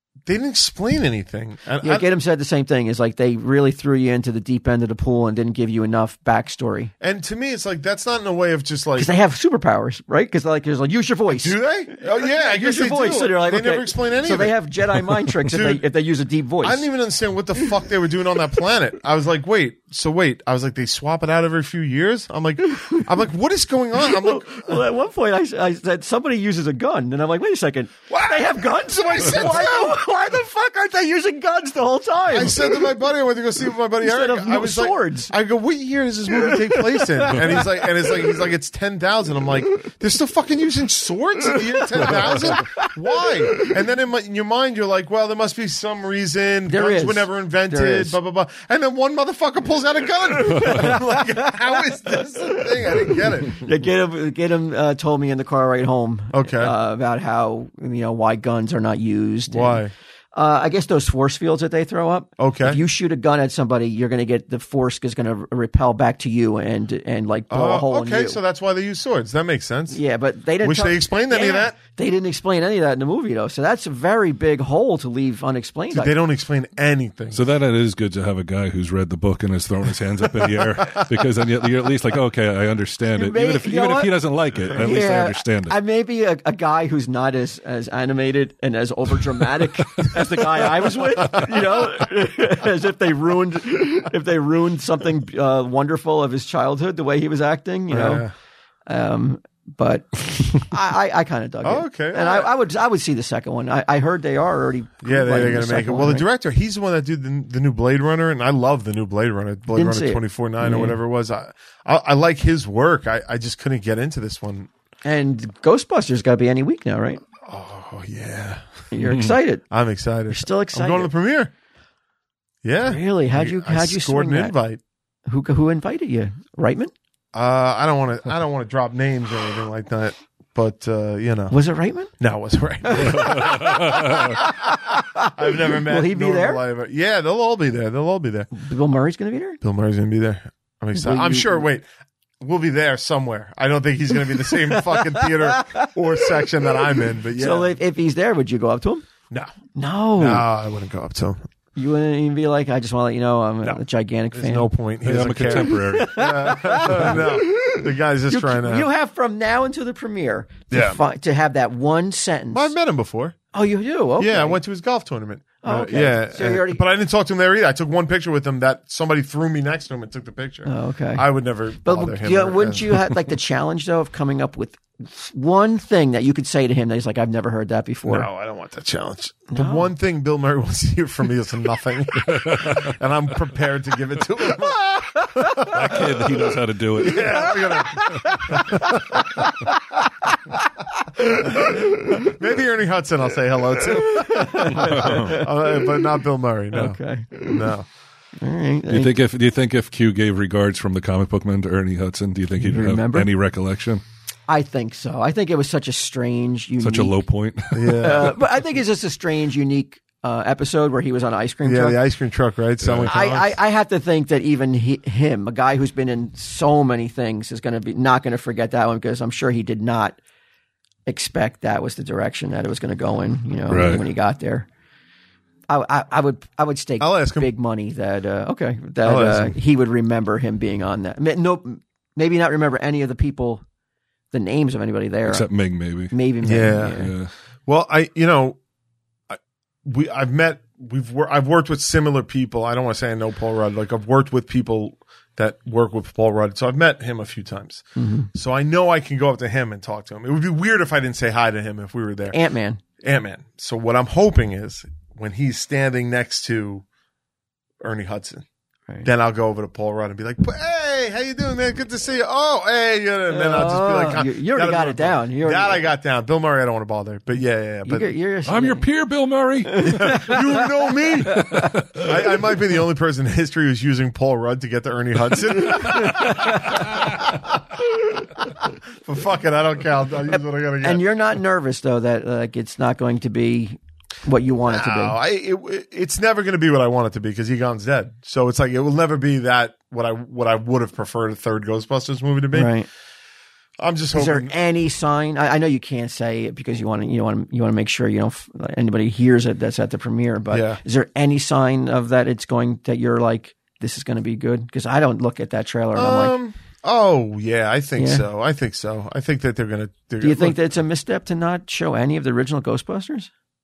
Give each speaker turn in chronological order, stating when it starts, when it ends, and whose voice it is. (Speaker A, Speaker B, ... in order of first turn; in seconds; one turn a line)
Speaker A: 0.2-2.0
Speaker B: 1.8-6.9
Speaker A: 7.0-9.1
Speaker B: 8.9-16.9
Speaker A: 11.3-14.6
Speaker A: 15.4-15.8
Speaker A: 16.6-24.8
Speaker B: 22.8-23.1
Speaker B: 24.0-32.9
Speaker A: 28.1-30.0
Speaker A: 32.3-53.6
Speaker B: 34.0-35.3
Speaker B: 36.3-38.2
Speaker B: 41.8-43.7
Speaker B: 46.7-48.2
Speaker B: 50.3-51.8
Speaker B: 52.4-59.8
Speaker A: 56.3-56.7
Speaker A: 59.5-59.9
Speaker B: 60.3-68.4
Speaker A: 62.4-62.8
Speaker A: 67.5-70.0
Speaker B: 69.9-76.1
Speaker A: 70.6-71.7
Speaker A: 75.9-77.4
Speaker C: 77.3-85.8
Speaker A: 80.4-81.1
Speaker B: 83.1-98.3
Speaker A: 91.3-91.9
Speaker A: 97.9-98.3
Speaker B: 98.9-106.2
Speaker A: 101.6-102.5
Speaker A: 105.0-114.7
Speaker B: 109.7-111.0
Speaker B: 115.0-117.2
Speaker A: 117.4-118.8
Speaker B: 118.9-119.6
Speaker C: 119.0-119.4
Speaker A: 119.7-121.5
Speaker B: 120.3-121.1
Speaker A: 122.6-124.8
Speaker B: 122.8-124.5
Speaker B: 125.2-126.9
Speaker A: 127.3-131.6
Speaker B: 131.5-132.1
Speaker A: 132.2-138.5
Speaker B: 132.8-136.6
Speaker C: 132.9-134.4
Speaker B: 138.5-139.6
Speaker A: 139.6-141.8
Speaker B: 140.9-141.7
Speaker A: 142.4-147.7
Speaker B: 144.3-145.9
Speaker B: 147.3-149.0
Speaker B: 149.7-150.4
Speaker A: 150.2-151.4
Speaker B: 151.8-154.7
Speaker A: 154.3-158.9
Speaker C: 155.0-157.2
Speaker B: 155.5-162.7
Speaker A: 160.7-161.0
Speaker A: 162.5-163.4
Speaker B: 163.5-164.6
Speaker A: 164.2-173.1
Speaker B: 165.6-166.8
Speaker B: 170.6-171.2
Speaker B: 171.8-178.3
Speaker A: 178.1-186.3
Speaker B: 179.5-179.9
Speaker C: 182.3-182.9
Speaker B: 185.2-185.7
Speaker C: 185.7-187.5
Speaker A: 187.0-189.4
Speaker B: 187.1-192.3
Speaker A: 191.4-197.9
Speaker B: 193.9-195.8
Speaker C: 194.7-195.4
Speaker B: 196.7-197.7
Speaker B: 198.4-199.1
Speaker C: 198.9-204.0
Speaker B: 202.6-203.3
Speaker B: 204.5-207.2
Speaker C: 206.8-208.3
Speaker A: 207.7-208.4
Speaker B: 207.9-212.0
Speaker A: 211.6-213.6
Speaker C: 212.8-213.1
Speaker B: 213.0-220.2
Speaker B: 221.1-224.7
Speaker C: 223.7-224.1
Speaker B: 225.7-233.6
Speaker A: 227.0-227.5
Speaker A: 229.0-229.6
Speaker B: 234.3-235.4
Speaker C: 235.2-236.1
Speaker B: 236.1-237.1
Speaker A: 236.4-237.1
Speaker C: 236.9-237.3
Speaker A: 237.7-238.6
Speaker A: 239.3-252.4
Speaker B: 247.9-248.3
Speaker B: 252.3-252.8
Speaker A: 253.0-256.8
Speaker A: 257.8-258.4
Speaker A: 259.0-268.1
Speaker B: 263.3-265.9
Speaker B: 267.8-268.9
Speaker C: 268.4-270.0
Speaker B: 269.6-271.7
Speaker A: 269.8-271.4
Speaker C: 271.3-272.1
Speaker A: 272.0-281.0
Speaker B: 275.8-276.8
Speaker C: 276.7-277.0
Speaker B: 280.8-285.2
Speaker A: 284.7-292.7
Speaker B: 292.5-292.9
Speaker A: 293.8-294.5
Speaker B: 294.1-306.4
Speaker A: 300.5-300.8
Speaker A: 305.9-310.6
Speaker B: 307.9-308.2
Speaker B: 310.2-313.3